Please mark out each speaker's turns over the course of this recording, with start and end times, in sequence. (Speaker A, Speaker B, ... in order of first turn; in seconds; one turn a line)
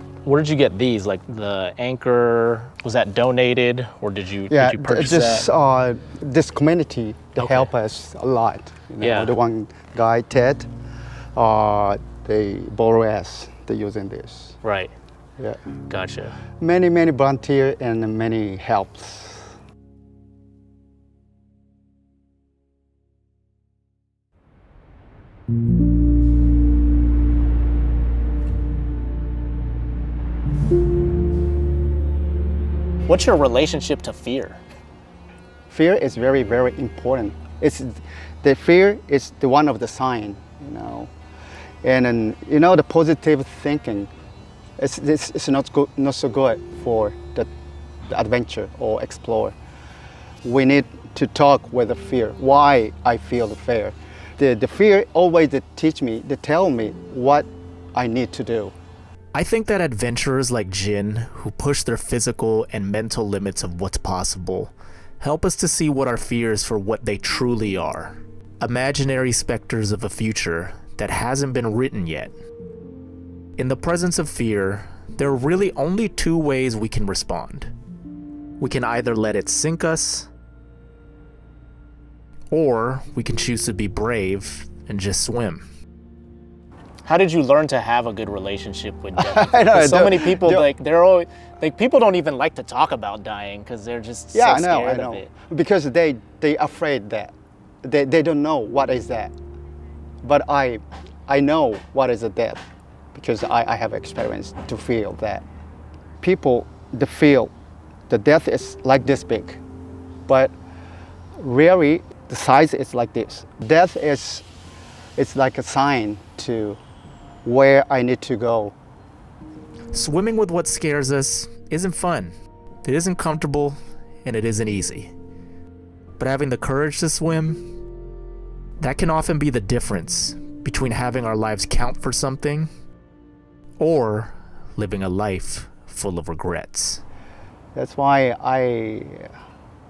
Speaker A: 0.2-5.5
Speaker B: 4.5-10.7
Speaker A: 7.4-7.7
Speaker A: 9.0-9.4
Speaker B: 11.4-14.6
Speaker A: 14.6-14.9
Speaker A: 15.9-16.4
Speaker B: 16.6-19.5
Speaker A: 33.1-34.6
Speaker B: 35.7-41.1
Speaker B: 41.8-44.1
Speaker B: 44.8-47.5
Speaker B: 48.1-49.5
Speaker B: 50.4-58.7
Speaker C: 59.3-72.3
Speaker C: 73.6-77.7
Speaker C: 78.6-80.3
Speaker C: 82.5-85.6
Speaker A: 87.0-95.3
Speaker B: 89.1-90.7
Speaker B: 94.3-97.3
Speaker B: 97.8-99.3
Speaker B: 100.2-102.6
Speaker B: 103.1-105.4
Speaker B: 106.2-107.5
Speaker B: 108.1-109.6
Speaker B: 110.3-110.5
Speaker B: 111.4-114.5
Speaker B: 115.2-116.8
Speaker B: 117.5-118.7
Speaker C: 119.9-122.3
Speaker C: 122.8-125.1
Speaker C: 126.2-127.6
Speaker C: 128.8-132.7
Speaker C: 133.8-137.0
Speaker B: 137.8-139.3